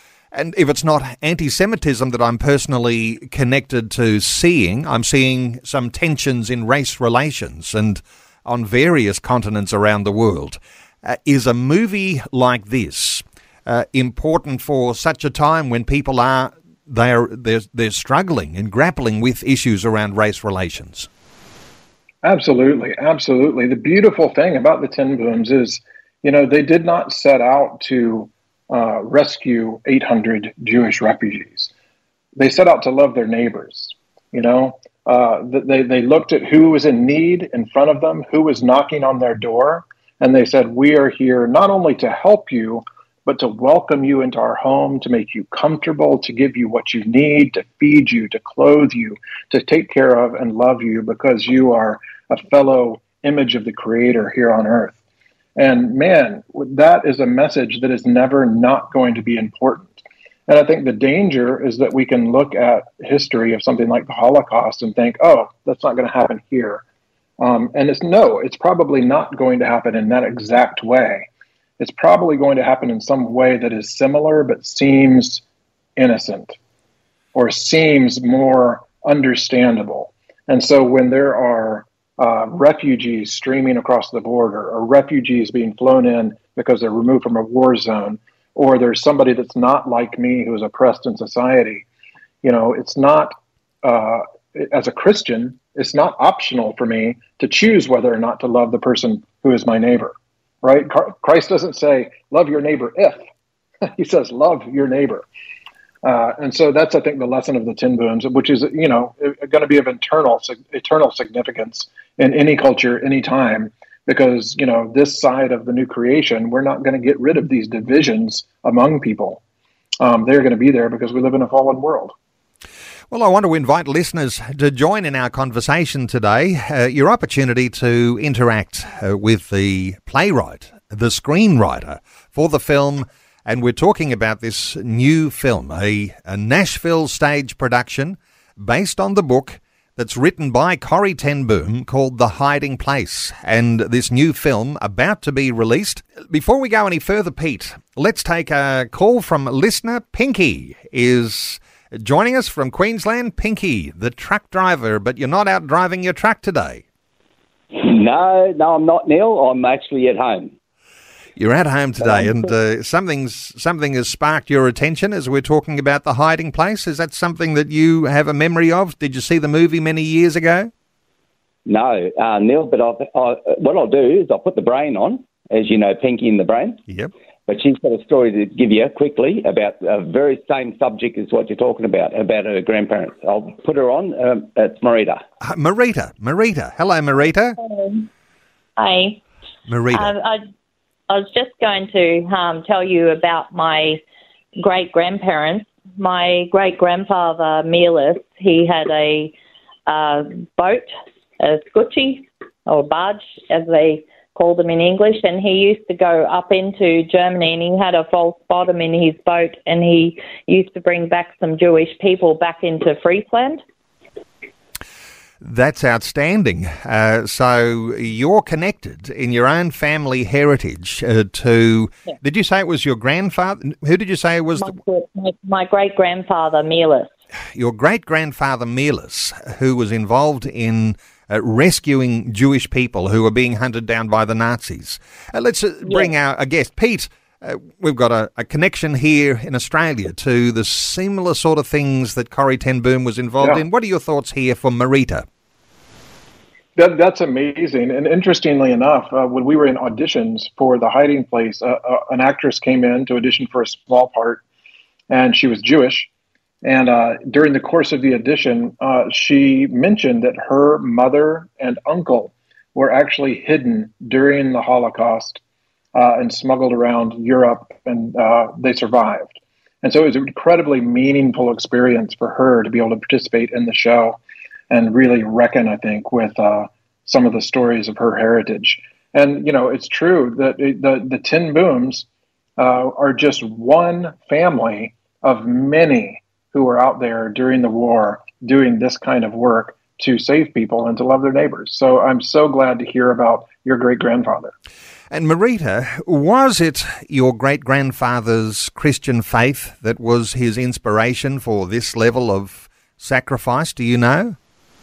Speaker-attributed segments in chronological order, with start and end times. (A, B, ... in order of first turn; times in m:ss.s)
0:00.3-0:21.1 A
0:22.2-0:31.7 B
0:32.4-0:55.0 B
0:55.6-1:06.8 B
1:07.4-1:11.3 B
1:11.8-1:15.4 B
1:16.0-1:16.6 B
1:17.3-1:31.8 B
1:32.4-1:43.2 B
1:43.8-1:45.2 B
1:46.0-1:59.4 B
2:00.0-2:02.1 B
2:03.1-2:36.8 A
2:37.7-2:40.5 C
2:41.4-2:50.7 A
2:42.0-2:42.4 C
2:51.6-2:56.8 C
2:57.5-3:05.2 C
3:05.4-3:07.6 A
3:07.6-3:08.1 D
3:08.8-3:09.2 D
3:09.7-3:10.1 A
3:09.9-3:10.4 D
3:11.1-3:14.0 D
3:14.6-3:19.3 D
3:19.9-3:20.9 D
3:21.4-3:33.6 D
3:35.4-3:44.7 A
3:44.6-3:47.1 D
3:47.5-4:05.2 A
3:55.8-3:56.1 D
4:06.8-4:14.4 B
4:15.1-4:16.1 B
4:16.6-4:25.4 B
4:25.9-4:34.2 B
4:34.7-4:42.0 B
4:42.6-4:54.5 B
4:55.1-5:04.4 A